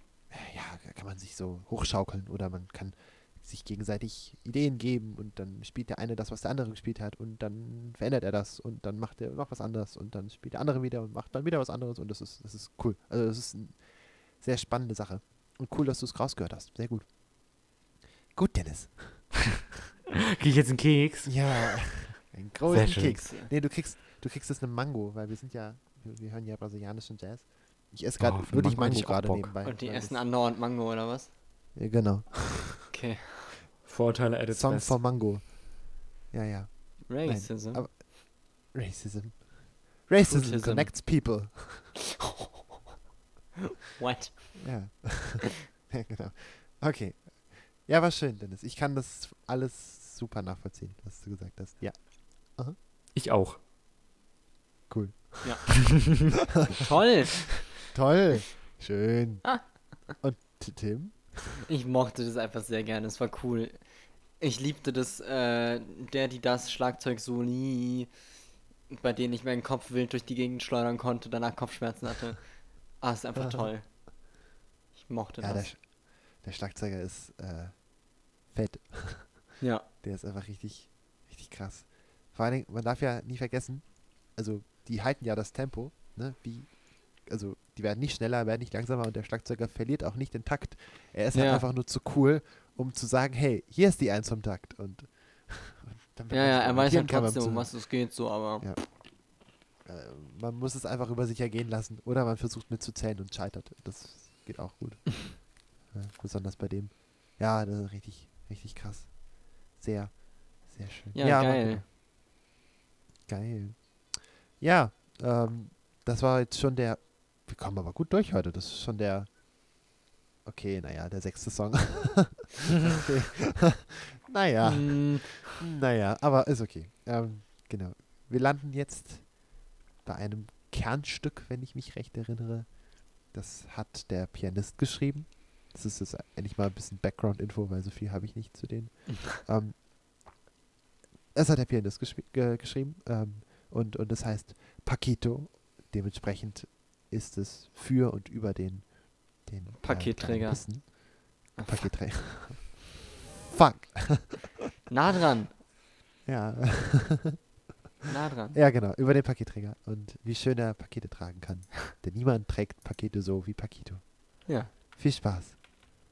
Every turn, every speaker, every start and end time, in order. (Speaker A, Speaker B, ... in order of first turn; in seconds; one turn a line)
Speaker A: 0.3-17.1
Speaker A: 18.3-19.4
Speaker B: 20.4-21.9
Speaker A: 21.3-30.2
Speaker C: 22.7-23.5
Speaker B: 22.7-23.2
Speaker B: 28.2-29.5
Speaker C: 29.6-31.3
Speaker A: 31.8-32.9
Speaker C: 32.9-33.5
Speaker B: 33.9-35.1
Speaker A: 34.5-42.0
Speaker C: 37.1-37.9
Speaker C: 40.2-41.5
Speaker C: 43.6-44.9
Speaker A: 44.6-52.8
Speaker B: 53.1-53.6
Speaker A: 54.9-56.1
Speaker C: 55.4-55.7
Speaker C: 56.8-57.6
Speaker A: 57.8-61.6
Speaker C: 61.7-68.2
Speaker C: 68.9-73.9
Speaker C: 75.0-75.7
Speaker A: 75.4-111.8
Speaker C: 79.6-79.9
Speaker C: 91.3-91.6
Speaker C: 96.3-98.7
Speaker C: 111.2-111.8
Speaker A: 113.3-119.3
Speaker A: 120.5-139.8
Speaker C: 124.6-125.5
Speaker A: 141.3-153.0
Speaker C: 149.8-151.0
Speaker C: 151.6-151.9
Speaker A: 153.5-154.5
Speaker C: 154.9-155.5
Speaker A: 156.2-157.4
Speaker C: 158.1-158.6
Speaker A: 158.5-165.6
Speaker C: 164.5-164.7